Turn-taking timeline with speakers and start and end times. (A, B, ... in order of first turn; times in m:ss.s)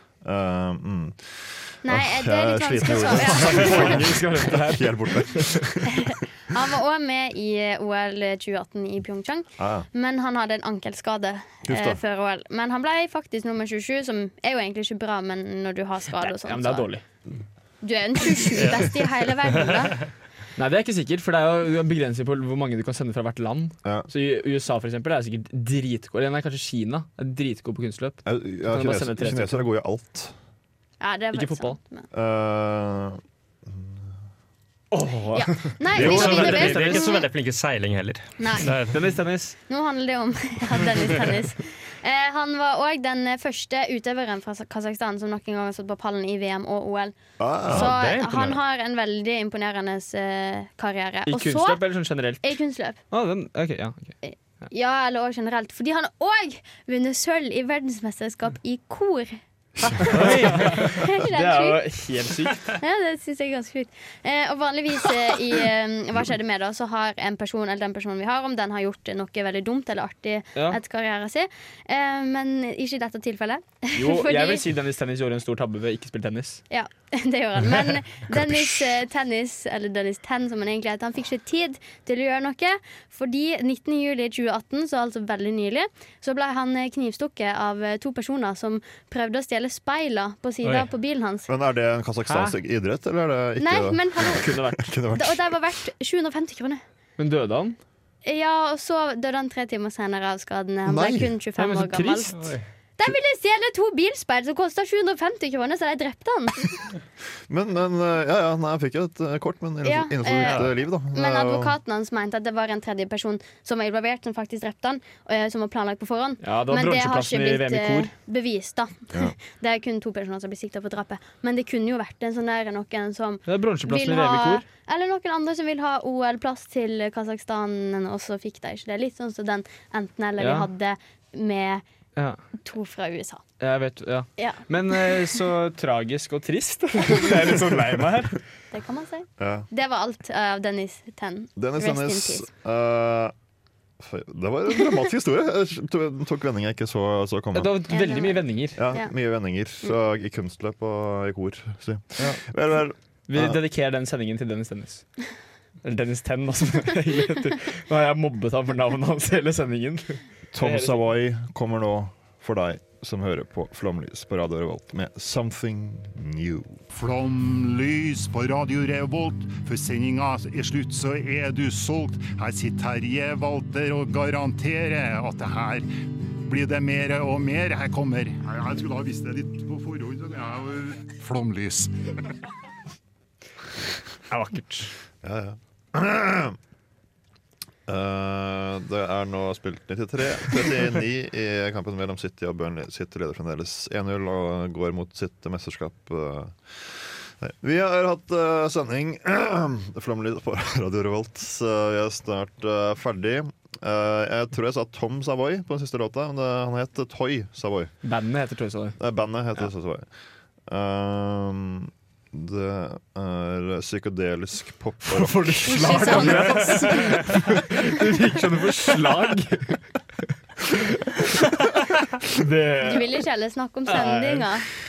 0:00.2-0:06.1 A
0:01.8-0:04.0 B
0:03.2-0:05.6 C
0:06.1-0:16.9 B
0:09.6-0:09.9 A
0:11.7-0:12.0 A
0:16.2-0:17.0 C
0:17.8-0:20.1 B
0:20.6-0:29.7 C
0:28.2-0:30.3 A
0:31.0-0:32.1 B
0:31.3-0:31.8 C
0:32.1-0:34.1 A
0:34.9-0:37.0 C
0:35.3-0:37.3 B
0:35.9-0:36.8 A
0:36.0-0:39.0 D
0:38.4-0:38.8 B
0:38.9-0:39.6 C
0:39.7-0:51.8 B
0:47.4-0:47.9 A
0:47.7-0:48.6 D
0:51.3-0:52.5 C
0:52.4-0:53.0 B
0:53.1-0:54.2 C
0:54.2-0:59.4 B
0:59.9-1:01.8 B
0:59.9-1:02.6 C
1:02.7-1:14.6 B
1:14.0-1:16.6 C
1:16.7-1:31.5 B
1:31.5-1:35.7 A
1:32.3-1:32.6 C
1:33.6-1:34.5 B
1:34.3-1:34.8 C
1:35.1-1:36.8 B
1:37.2-1:37.8 C
1:38.2-1:42.4 B
1:40.8-1:41.3 A
1:41.6-1:42.4 C
1:42.3-1:42.6 D
1:43.0-1:46.9 B
1:47.5-1:51.8 A
1:49.8-2:11.8 B
1:56.4-1:58.1 C
2:03.5-2:04.6 C
2:10.4-2:10.7 C
2:12.2-2:12.4 C
2:12.6-2:13.4 B
2:13.6-2:18.4 C
2:14.4-2:14.6 B
2:18.7-2:22.5 B
2:19.4-2:19.7 A
2:21.6-2:23.3 A
2:24.0-2:28.0 A
2:27.5-2:28.8 C
2:27.9-2:29.1 B
2:28.8-2:33.6 A
2:33.3-2:35.1 C
2:35.8-2:41.0 C
2:40.5-2:46.8 A
2:46.9-3:01.9 E
3:04.3-3:04.9 C
3:05.2-3:06.6 A
3:07.9-3:27.9 A
3:28.0-3:29.0 C
3:29.0-3:30.1 A
3:30.7-3:36.5 A
3:35.1-3:39.8 C
3:35.7-3:37.2 B
3:41.0-3:41.4 C
3:42.3-3:43.2 C
3:42.8-3:44.7 B
3:43.9-3:44.5 C